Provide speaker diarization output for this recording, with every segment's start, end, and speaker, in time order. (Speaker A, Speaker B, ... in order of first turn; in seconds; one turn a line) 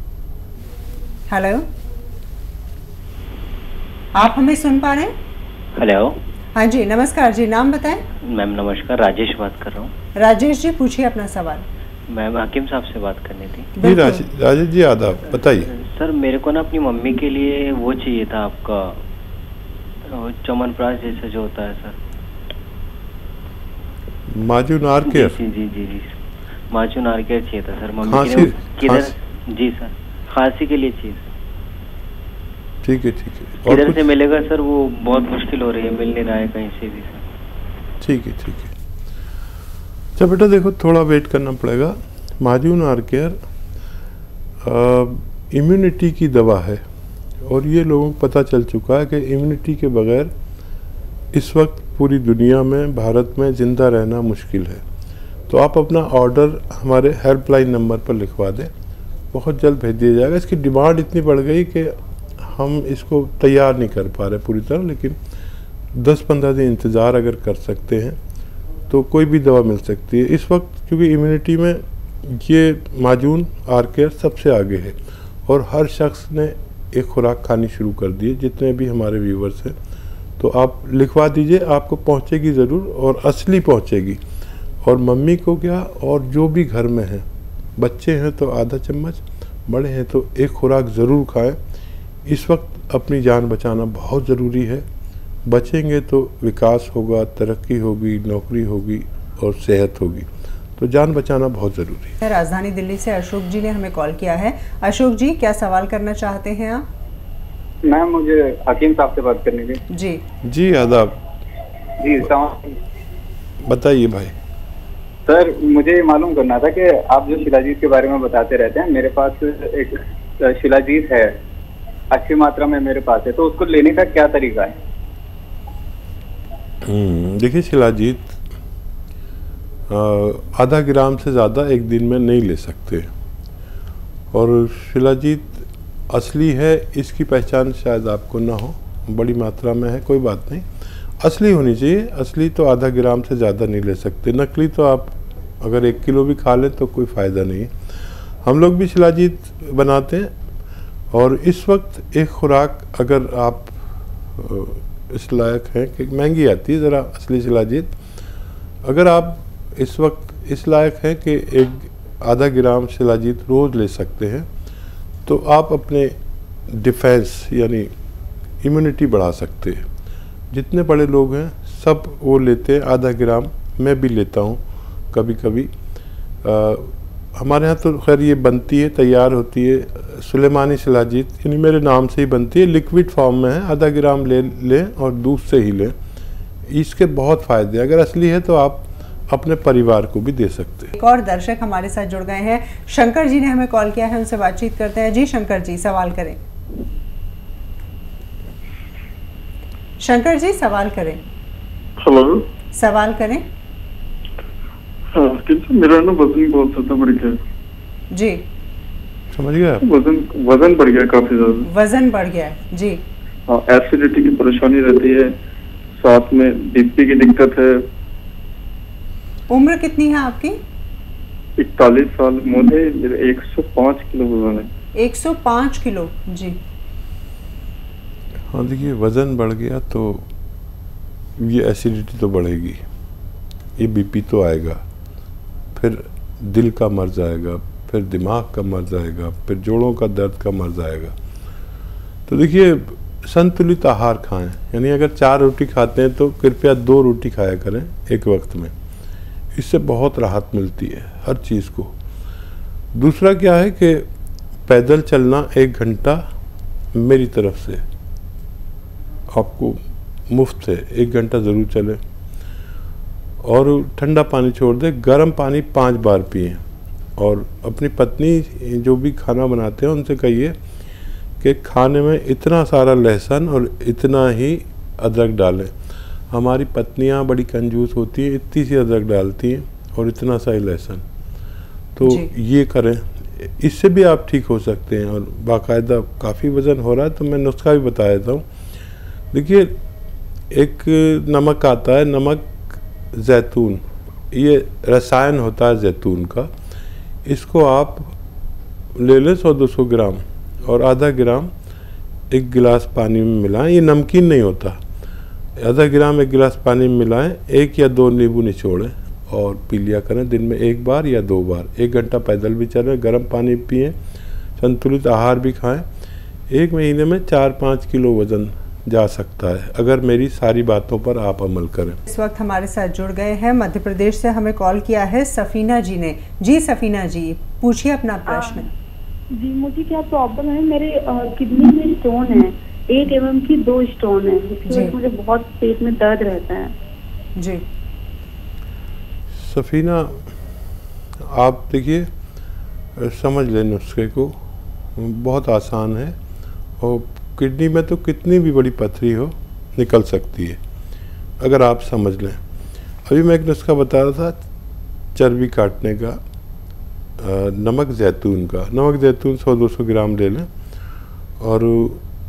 Speaker A: 1.3-1.6
Speaker A: 4.1-5.1
Speaker B: 5.8-6.2
Speaker A: 6.5-8.0
Speaker B: 8.3-9.9
Speaker A: 10.2-11.6
Speaker B: 12.1-13.7
Speaker A: 13.8-14.2
Speaker C: 13.8-15.7
Speaker B: 15.5-19.0
Speaker B: 20.1-21.9
Speaker C: 24.3-25.4
Speaker B: 25.1-26.1
Speaker B: 26.7-31.2
Speaker C: 28.0-29.1
Speaker C: 32.8-34.0
Speaker B: 33.6-37.2
Speaker C: 38.0-38.7
Speaker C: 40.1-43.4
Speaker C: 44.6-46.8
Speaker C: 47.4-50.3
Speaker C: 51.3-54.8
Speaker C: 55.5-58.7
Speaker C: 59.3-65.2
Speaker C: 65.9-68.2
Speaker C: 68.9-79.8
Speaker C: 80.4-84.2
Speaker C: 84.8-87.2
Speaker C: 87.8-91.6
Speaker C: 92.2-94.8
Speaker C: 95.5-102.1
Speaker A: 102.2-106.8
Speaker D: 107.8-109.8
Speaker A: 109.9-110.2
Speaker C: 110.5-111.2
Speaker D: 112.0-112.8
Speaker C: 113.6-114.3
Speaker D: 115.3-121.3
Speaker D: 122.1-124.7
Speaker C: 126.8-128.4
Speaker C: 129.9-133.1
Speaker C: 134.3-140.7
Speaker C: 141.2-147.7
Speaker C: 148.4-150.3
Speaker C: 151.1-153.8
Speaker C: 154.3-157.9
Speaker C: 158.8-164.5
Speaker C: 165.2-166.1
Speaker C: 166.7-167.9
Speaker C: 168.6-169.8
Speaker C: 170.5-175.7
Speaker C: 176.4-185.9
Speaker C: 186.7-190.9
Speaker A: 190.9-196.4
Speaker A: 200.0-201.2
Speaker E: 202.0-202.4
Speaker A: 202.7-203.4
Speaker E: 205.1-207.3
Speaker A: 208.1-208.4
Speaker C: 209.3-209.8
Speaker E: 209.8-211.7
Speaker A: 211.7-213.0
Speaker E: 213.5-215.3
Speaker E: 216.0-217.9
Speaker A: 219.5-220.6
Speaker E: 221.6-224.7
Speaker A: 225.0-226.6
Speaker C: 228.5-230.3
Speaker C: 231.4-232.8
Speaker C: 233.8-234.8
Speaker C: 235.7-241.1
Speaker C: 242.3-248.7
Speaker C: 249.5-251.9
Speaker C: 252.9-254.1
Speaker C: 254.7-256.2
Speaker C: 256.9-257.8
Speaker C: 259.3-262.0
Speaker C: 263.4-266.6
Speaker C: 267.2-270.5
Speaker C: 271.4-275.7
Speaker C: 276.3-281.0
Speaker C: 281.9-288.4
Speaker C: 289.3-289.7
Speaker C: 290.5-296.5
Speaker C: 297.2-298.1
Speaker C: 298.9-301.5
Speaker C: 302.3-304.8
Speaker C: 305.6-313.9
Speaker C: 314.6-315.8
Speaker C: 316.5-322.0
Speaker A: 322.1-328.7
Speaker F: 328.3-328.7
Speaker F: 329.3-336.7
Speaker A: 334.7-334.9
Speaker A: 337.4-337.6
Speaker C: 339.4-340.2
Speaker C: 341.2-342.1
Speaker C: 343.0-344.3
Speaker C: 344.9-346.1
Speaker C: 346.8-350.6
Speaker C: 351.4-352.4
Speaker C: 353.1-354.4
Speaker C: 355.1-356.2
Speaker C: 357.2-360.5
Speaker C: 361.4-362.0